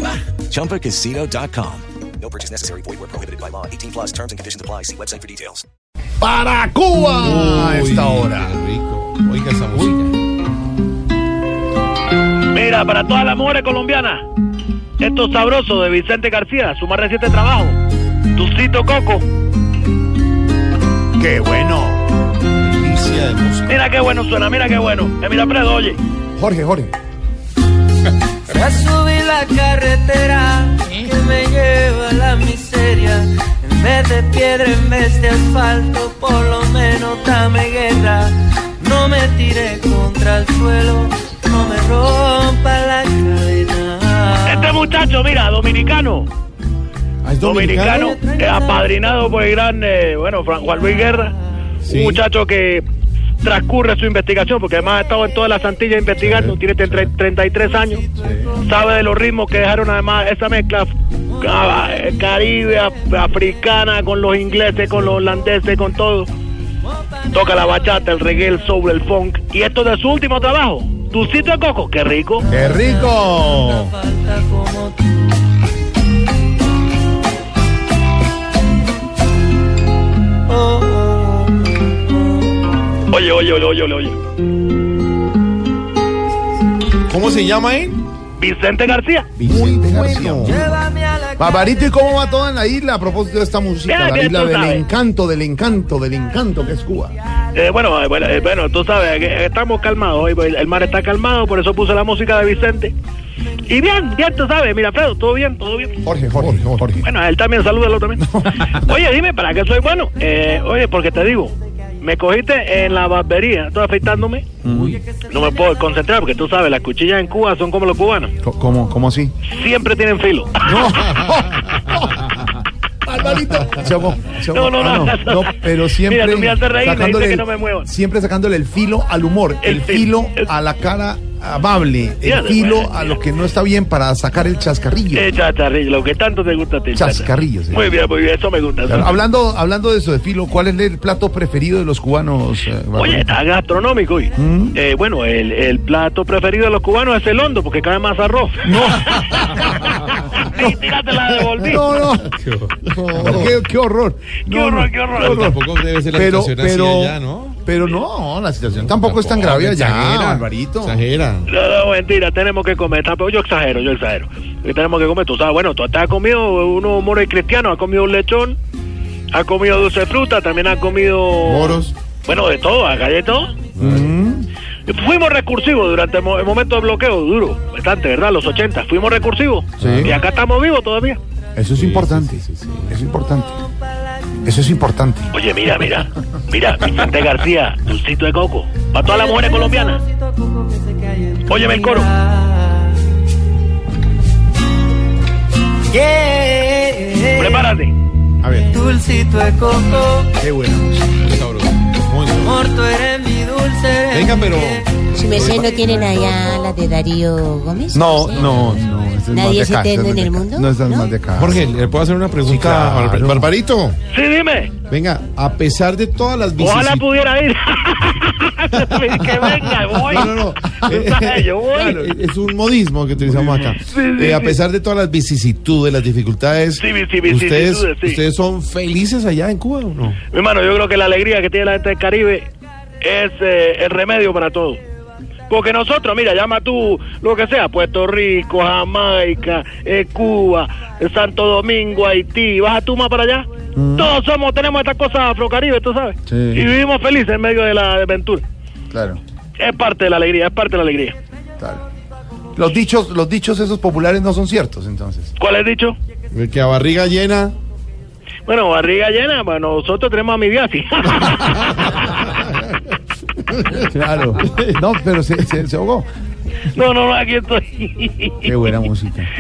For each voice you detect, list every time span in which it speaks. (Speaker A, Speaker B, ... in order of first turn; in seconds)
Speaker A: 0.3-5.6
Speaker B: 6.2-8.5, 21.2-22.0, 26.4-26.9, 56.2-57.0, 58.2-58.5, 72.5-73.9, 89.4-90.8, 91.4-97.1, 106.0-107.1, 108.2-108.8, 114.6-115.0, 118.4-119.3, 120.6-135.3, 136.9-137.9, 138.8-143.3, 144.3-144.8, 148.6-149.4, 151.6-152.3, 153.1-155.6, 156.1-161.0, 173.8-174.5, 179.8-180.2, 181.6-183.6, 184.4-185.3, 200.4-201.1, 207.9-211.7, 212.4-213.5, 220.1-221.1, 221.7-222.2, 223.2-223.7, 243.7-244.1, 246.3-246.7, 248.9-249.2, 252.5-255.3, 263.7-266.1, 268.4-269.3
Speaker C: 7.2-10.1, 22.7-23.7, 47.2-48.0, 51.8-52.2, 87.1-88.0, 89.4-90.6, 106.4-106.9, 152.2-153.6, 155.2-157.6, 158.7-161.5, 171.4-171.9, 173.8-174.2, 179.8-180.1, 181.7-183.0, 198.4-198.8, 201.2-202.6, 204.1-206.7, 208.3-208.8, 211.4-214.0, 214.8-217.0, 218.9-230.2, 256.3-257.5, 264.5-264.8
Speaker D: 12.5-14.2, 15.0-17.8, 18.3-19.2, 23.6-26.0, 44.4-46.3, 47.4-52.9, 53.4-66.3, 67.3-72.5, 83.1-84.2, 88.4-89.3, 93.9-94.8, 97.5-102.9, 103.7-106.0, 107.0-114.5, 115.2-118.3, 119.5-121.0, 124.5-125.5, 126.0-127.9, 129.6-130.5, 132.2-133.2, 135.1-139.1, 142.9-151.8, 154.5-155.4, 161.5-168.6, 169.3-173.6, 174.9-181.2, 185.3-190.0, 191.5-192.1, 197.3-197.9, 214.1-214.7, 216.6-222.0, 223.8-224.6, 226.8-228.2, 230.3-232.5, 233.0-234.8, 235.5-248.4, 249.6-251.2, 255.4-255.9, 258.4-262.2, 266.7-268.6
Speaker E: 28.5-44.7, 48.1-48.6, 72.6-75.0, 80.5-81.7, 90.5-91.6, 189.1-193.0, 195.9-197.6, 198.7-200.3, 202.4-205.9
Speaker F: 205.1-208.5, 209.3-211.1